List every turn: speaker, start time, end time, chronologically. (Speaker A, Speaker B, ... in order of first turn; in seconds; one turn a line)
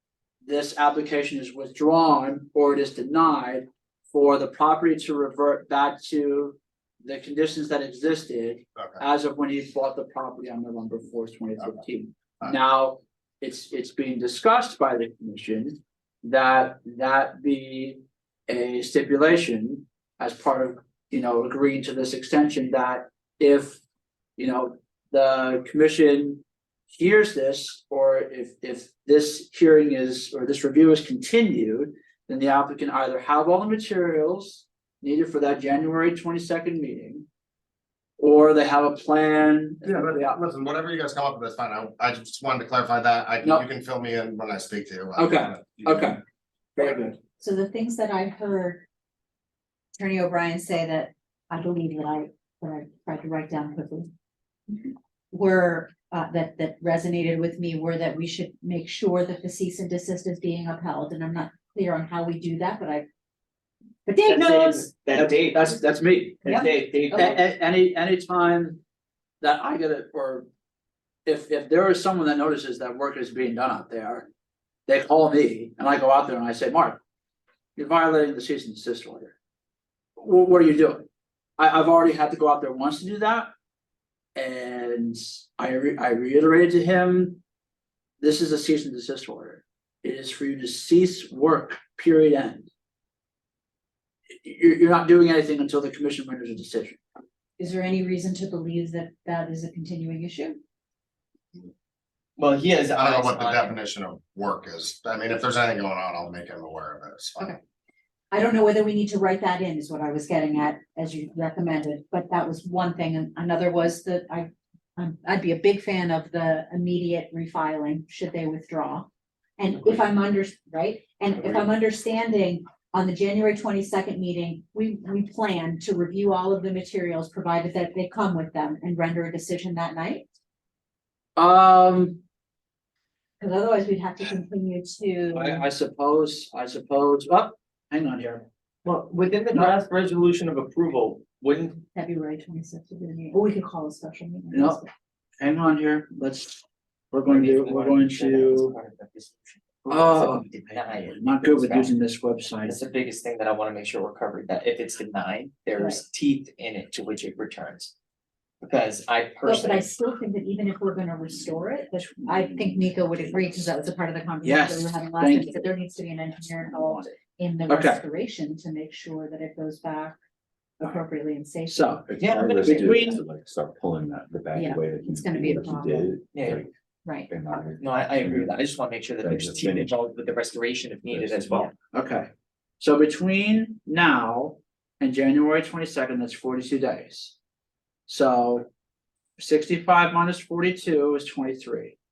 Speaker A: 0.5-23.8
Speaker B: 8.8-9.0
Speaker A: 24.4-37.3
Speaker A: 38.2-40.4
Speaker B: 39.8-46.1
Speaker A: 45.2-46.2
Speaker A: 46.8-47.2
Speaker C: 47.4-48.9
Speaker C: 50.0-54.1
Speaker C: 54.7-63.1
Speaker C: 64.1-64.9
Speaker D: 64.3-65.8
Speaker A: 64.3-68.8
Speaker D: 66.5-67.4
Speaker A: 69.4-70.5
Speaker A: 71.2-74.3
Speaker A: 74.9-77.0
Speaker A: 77.8-79.3
Speaker A: 80.2-81.1
Speaker A: 81.6-83.5
Speaker A: 84.3-87.4
Speaker A: 88.2-92.7
Speaker A: 94.4-97.0
Speaker C: 97.6-100.6
Speaker D: 102.4-103.8
Speaker B: 102.9-107.6
Speaker C: 108.3-130.3
Speaker A: 131.4-132.2
Speaker C: 133.4-135.7
Speaker A: 135.3-138.5
Speaker D: 138.8-141.8
Speaker C: 141.9-144.9
Speaker A: 144.5-144.8
Speaker A: 145.4-148.8
Speaker D: 147.3-151.9
Speaker A: 149.9-152.8
Speaker D: 152.6-157.9
Speaker D: 158.6-159.9
Speaker C: 159.4-170.2
Speaker A: 164.4-165.7
Speaker A: 166.5-167.1
Speaker A: 167.7-168.0
Speaker C: 170.8-172.2
Speaker A: 171.7-172.1
Speaker E: 172.1-176.7
Speaker D: 172.2-173.2
Speaker A: 172.6-173.2
Speaker C: 174.6-176.1
Speaker D: 176.3-176.6
Speaker C: 177.1-177.3
Speaker E: 177.3-178.6
Speaker D: 177.7-181.7
Speaker E: 179.2-180.0
Speaker E: 181.1-181.7
Speaker A: 181.9-187.3
Speaker A: 188.1-188.7
Speaker A: 189.4-192.0